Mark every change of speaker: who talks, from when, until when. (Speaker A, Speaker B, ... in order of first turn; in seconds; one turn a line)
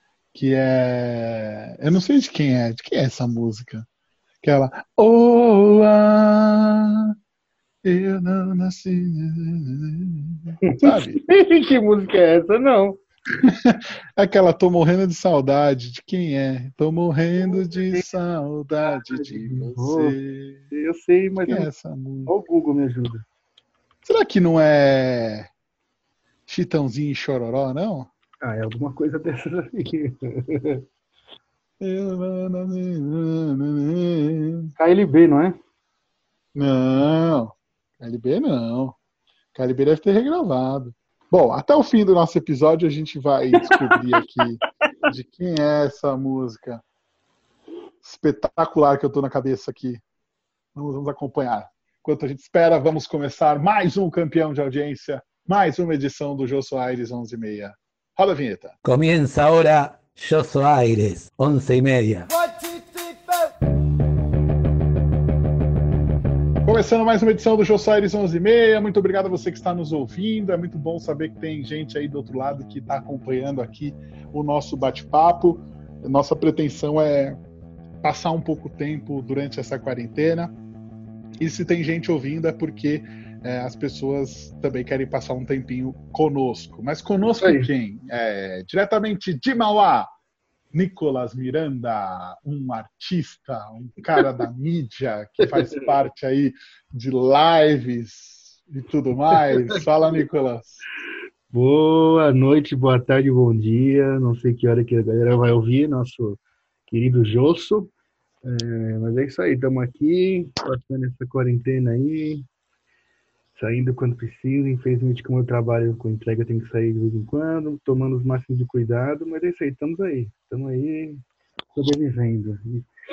Speaker A: 0.3-3.9
Speaker A: 4.4-7.1
Speaker A: 7.8-11.2
Speaker B: 10.6-13.0
Speaker A: 13.4-20.6
Speaker B: 17.4-18.1
Speaker B: 18.8-20.2
Speaker B: 20.7-21.7
Speaker A: 21.4-22.3
Speaker B: 22.3-23.2
Speaker A: 24.0-25.5
Speaker A: 26.5-28.1
Speaker B: 28.4-30.8
Speaker A: 31.8-34.7
Speaker B: 34.8-35.6
Speaker A: 36.5-39.0
Speaker A: 39.5-46.8
Speaker B: 43.5-44.2
Speaker A: 48.0-50.0
Speaker A: 50.7-58.7
Speaker C: 58.8-62.3
Speaker A: 66.6-77.4
Speaker A: 78.0-80.5
Speaker A: 81.4-90.1
Speaker B: 87.4-87.7
Speaker A: 90.7-100.8
Speaker B: 95.4-95.9
Speaker B: 99.3-99.8
Speaker B: 101.5-107.9
Speaker B: 108.4-112.5
Speaker B: 113.5-121.2
Speaker B: 121.7-122.9